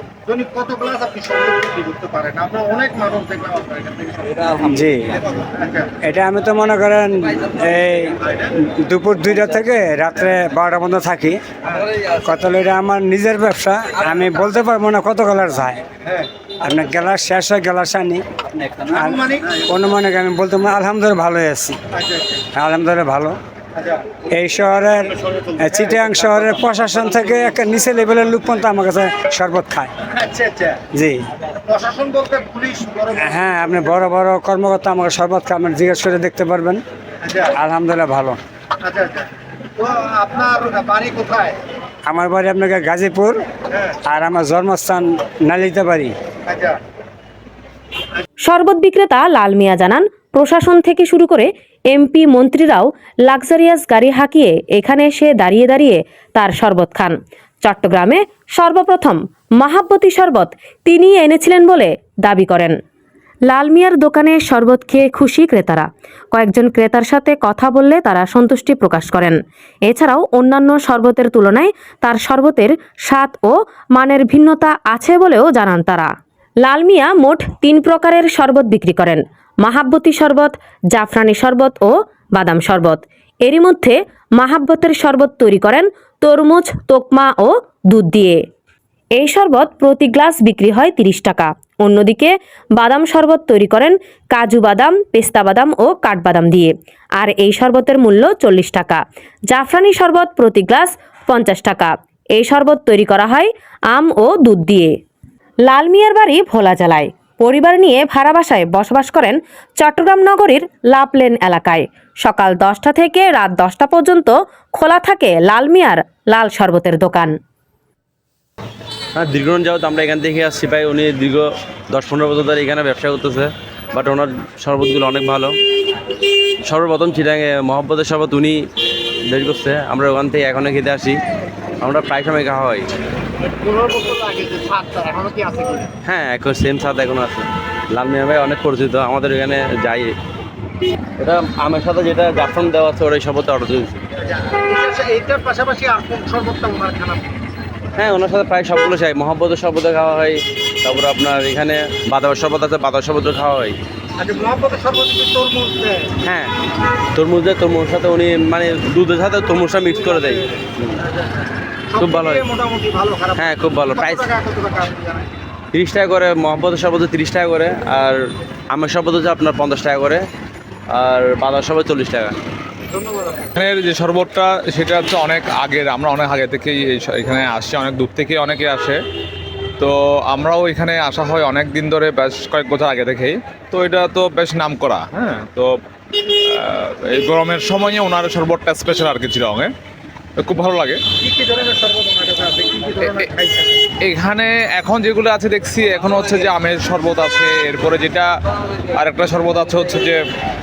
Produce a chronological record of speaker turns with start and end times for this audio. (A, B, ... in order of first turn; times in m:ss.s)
0:00.3-0:04.5 A
0:04.5-0:05.2 B
0:05.5-0:05.9 A
0:06.0-0:11.4 B
0:12.0-0:15.8 B
0:16.6-0:18.2 B
0:18.9-0:21.8 B
0:18.9-0:19.6 A
0:21.9-0:22.4 A
0:22.5-0:23.4 B
0:23.8-0:24.0 A
0:24.3-0:29.9 B
0:25.8-0:26.2 A
0:30.1-0:30.8 A
0:31.6-0:33.9 A
0:33.2-0:36.8 B
0:37.2-0:37.5 A
0:37.5-0:38.4 B
0:38.8-0:41.6 A
0:42.1-0:43.4 B
0:44.0-0:46.1 B
0:46.5-0:46.8 A
0:48.4-1:02.8 C
1:03.5-1:16.1 C
1:16.6-1:28.4 C
1:29.1-1:45.0 C
1:45.6-1:57.3 C
1:59.2-2:05.5 D
2:06.6-2:08.6 D
2:09.3-2:11.2 D
2:11.8-2:12.9 D
2:13.6-2:15.9 A
2:16.0-2:20.1 D
2:21.2-2:24.0 D
2:24.2-2:27.4 A
2:28.0-2:33.8 D
2:34.2-2:36.1 A
2:36.2-2:36.5 D
2:37.1-2:41.0 D
2:41.2-2:43.4 A
2:42.0-2:42.5 D
2:43.3-2:44.4 D
2:43.9-2:45.3 A
2:45.7-2:50.2 D
2:50.9-2:52.4 D
2:52.9-2:53.5 A
2:53.6-2:59.0 E
2:59.8-3:09.7 E
3:10.4-3:11.0 E
3:11.2-3:13.7 A
3:13.0-3:13.4 E
3:14.0-3:18.3 E
3:18.9-3:20.2 E